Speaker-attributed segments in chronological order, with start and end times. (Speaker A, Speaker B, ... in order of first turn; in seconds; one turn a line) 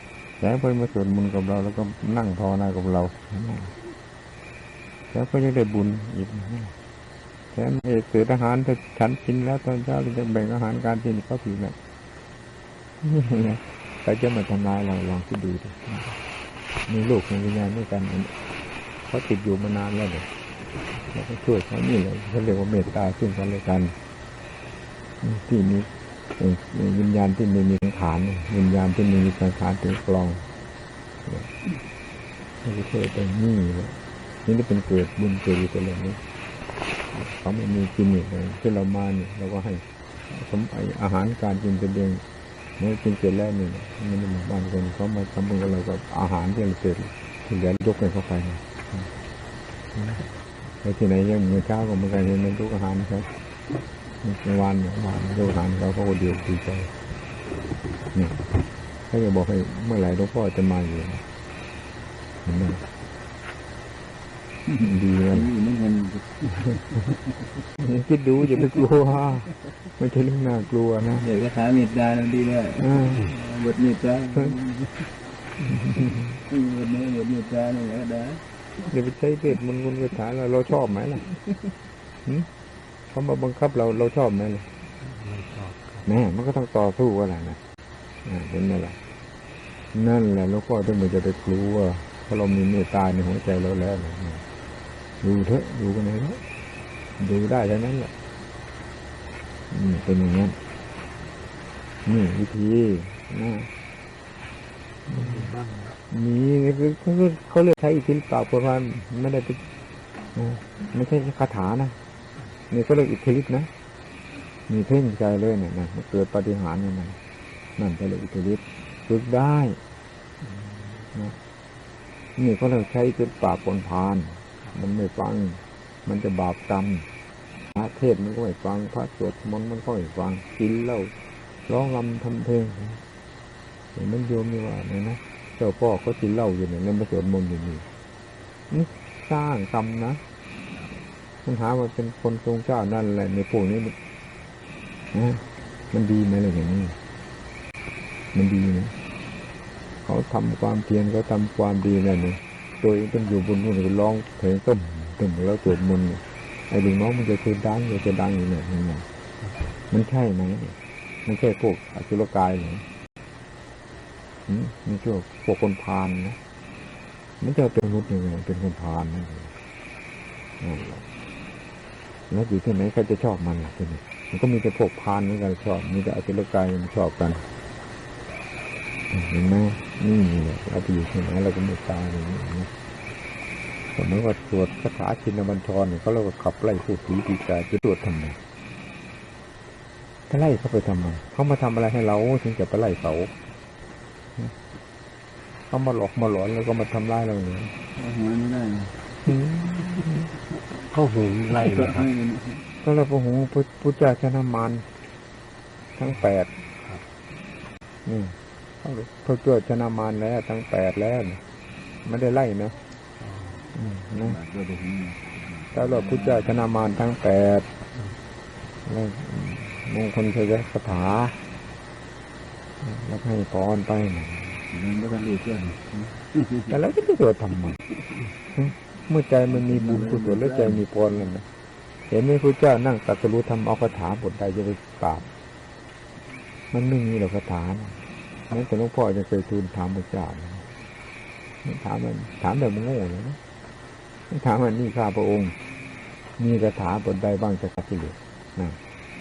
Speaker A: 0.4-3.8
Speaker A: 5.1-6.7
Speaker A: 7.5-11.8
Speaker A: 13.0-16.2
Speaker A: 16.9-18.3
Speaker A: 19.1-20.3
Speaker A: 21.1-23.9
Speaker A: 25.2-30.4
Speaker A: 31.3-31.5
Speaker A: 32.6-36.2
Speaker A: 37.1-42.2
Speaker A: 42.8-49.1
Speaker A: 49.9-50.2
Speaker A: 50.8-53.3
Speaker A: 54.2-56.9
Speaker A: 58.1-58.4
Speaker A: 59.1-61.2
Speaker A: 62.5-62.8
Speaker A: 64.8-65.5
Speaker B: 65.3-67.2
Speaker A: 67.8-71.3
Speaker B: 71.2-75.1
Speaker A: 72.8-73.3
Speaker A: 75.6-76.4
Speaker B: 76.5-78.4
Speaker A: 78.8-81.2
Speaker A: 83.1-84.7
Speaker C: 85.0-86.1
Speaker A: 86.1-87.6
Speaker A: 88.2-89.0
Speaker A: 89.9-94.4
Speaker A: 95.2-96.4
Speaker A: 97.2-98.1
Speaker A: 99.7-100.6
Speaker A: 102.0-103.7
Speaker A: 105.1-105.6
Speaker C: 105.2-105.9
Speaker A: 106.1-109.6
Speaker A: 110.3-112.0
Speaker A: 112.7-113.7
Speaker A: 114.7-117.2
Speaker A: 117.8-119.8
Speaker A: 120.4-121.4
Speaker A: 122.4-127.0
Speaker A: 127.7-131.1
Speaker A: 131.7-133.0
Speaker A: 133.9-137.9
Speaker A: 138.7-140.2
Speaker A: 141.4-143.9
Speaker A: 145.1-147.0
Speaker A: 148.3-148.9
Speaker A: 150.1-159.1
Speaker A: 159.9-160.8
Speaker A: 161.3-162.8
Speaker A: 164.5-166.4
Speaker A: 167.4-169.5
Speaker A: 170.6-171.0
Speaker A: 172.3-177.4
Speaker A: 179.1-182.7
Speaker A: 183.9-188.4
Speaker A: 190.3-193.3
Speaker A: 195.7-197.7
Speaker B: 198.0-198.9
Speaker A: 199.2-200.3
Speaker C: 200.8-202.1
Speaker B: 201.5-202.6
Speaker A: 202.8-204.9
Speaker A: 206.0-206.5
Speaker C: 206.7-207.1
Speaker A: 208.1-211.4
Speaker A: 212.1-212.8
Speaker C: 213.2-213.7
Speaker A: 213.7-214.4
Speaker B: 214.2-216.5
Speaker A: 215.7-217.7
Speaker A: 218.9-221.4
Speaker A: 222.8-224.6
Speaker B: 224.7-226.7
Speaker A: 226.7-227.8
Speaker A: 228.5-231.5
Speaker B: 229.5-230.8
Speaker A: 232.1-235.3
Speaker A: 236.7-238.0
Speaker A: 238.5-240.7
Speaker A: 241.6-243.4
Speaker A: 244.3-245.6
Speaker A: 246.4-248.8